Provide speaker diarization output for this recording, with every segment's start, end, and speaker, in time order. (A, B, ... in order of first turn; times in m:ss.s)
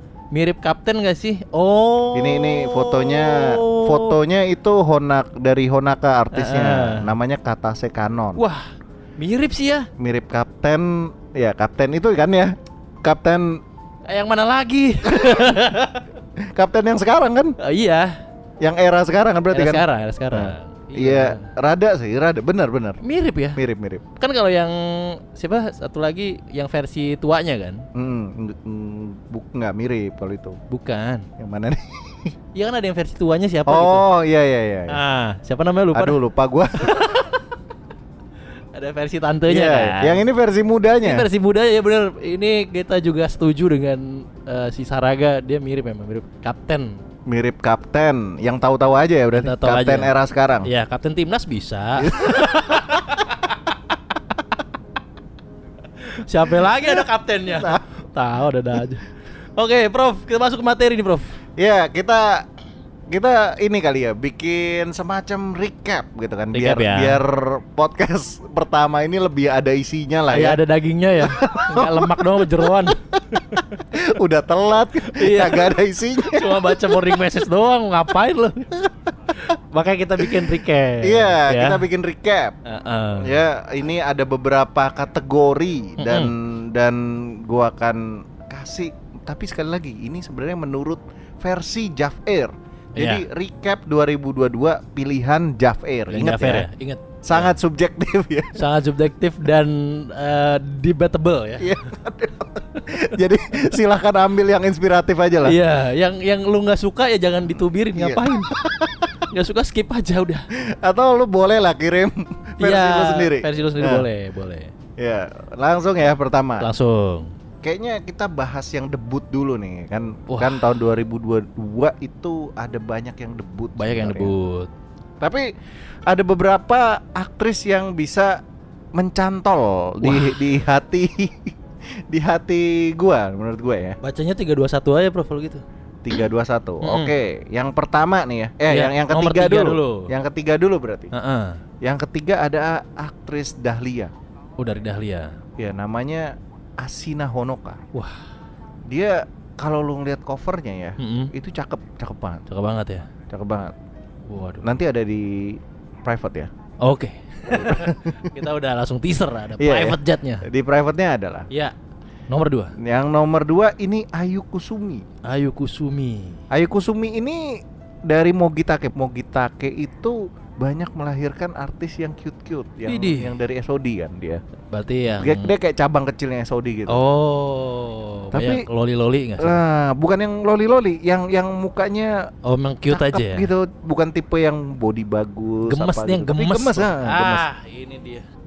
0:00.3-0:04.2 A
0:02.1-0:08.4 B
0:06.3-0:07.1 A
0:08.4-0:08.6 A
0:09.2-0:09.9 A
0:10.0-0:13.6 B
0:14.1-0:16.0 A
0:15.0-0:15.5 B
0:16.4-0:17.6 B
0:17.6-0:18.2 A
0:18.6-0:23.0 B
0:19.5-0:21.5 A
0:23.0-0:23.6 A
0:23.5-0:24.0 B
0:24.2-0:27.8 A
0:27.9-0:30.6 B
0:30.7-0:31.3 A
0:31.4-0:32.3 B
0:32.5-0:34.0 A
0:33.7-0:35.0 B
0:34.9-0:36.2 A
0:35.9-0:37.2 B
0:36.8-0:37.3 A
0:38.7-0:40.2 A
0:39.5-0:41.3 B
0:41.0-0:47.0 A
0:47.3-0:50.7 B
0:49.3-0:50.1 A
0:50.6-0:53.4 A
0:52.0-0:53.2 B
0:56.0-1:01.4 A
0:56.6-0:57.8 B
1:01.6-1:02.5 B
1:03.1-1:10.6 B
1:06.5-1:07.2 A
1:10.3-1:13.0 A
1:11.2-1:17.2 B
1:15.0-1:18.7 A
1:19.4-1:21.9 A
1:20.2-1:22.6 B
1:22.6-1:23.4 A
1:23.2-1:36.7 B
1:26.0-1:26.3 A
1:33.0-1:33.2 A
1:36.1-1:37.5 A
1:37.2-1:38.6 B
1:38.6-1:41.8 A
1:41.6-1:45.6 B
1:45.4-1:48.5 A
1:48.0-1:49.1 B
1:49.3-1:50.5 A
1:50.5-1:54.1 B
1:52.6-1:54.7 A
1:55.0-1:56.7 B
1:56.6-1:57.3 A
1:57.6-2:04.3 B
2:00.3-2:00.7 A
2:03.8-2:04.7 A
2:05.2-2:05.5 B
2:06.0-2:08.4 B
2:08.9-2:14.0 B
2:10.0-2:10.4 A
2:14.0-2:15.6 A
2:16.0-2:21.1 B
2:16.8-2:17.1 A
2:18.7-2:20.1 A
2:21.1-2:21.6 A
2:21.8-2:24.1 B
2:24.6-2:25.4 A
2:25.6-2:27.8 B
2:28.9-2:32.4 B
2:31.0-2:31.3 A
2:32.5-2:33.1 A
2:33.3-2:33.7 B
2:34.3-2:34.7 A
2:34.6-2:36.5 B
2:36.8-2:40.4 A
2:37.5-2:38.3 B
2:39.6-2:41.5 B
2:42.3-2:42.7 A
2:42.8-2:45.0 B
2:45.2-2:46.4 A
2:46.5-2:54.4 B
2:52.8-2:53.3 A
2:54.7-2:55.5 A
2:55.2-2:57.0 B
2:56.9-2:59.6 A
2:58.3-2:58.6 B
2:59.4-3:02.3 B
3:02.4-3:03.5 A
3:02.9-3:07.4 B
3:05.6-3:08.2 A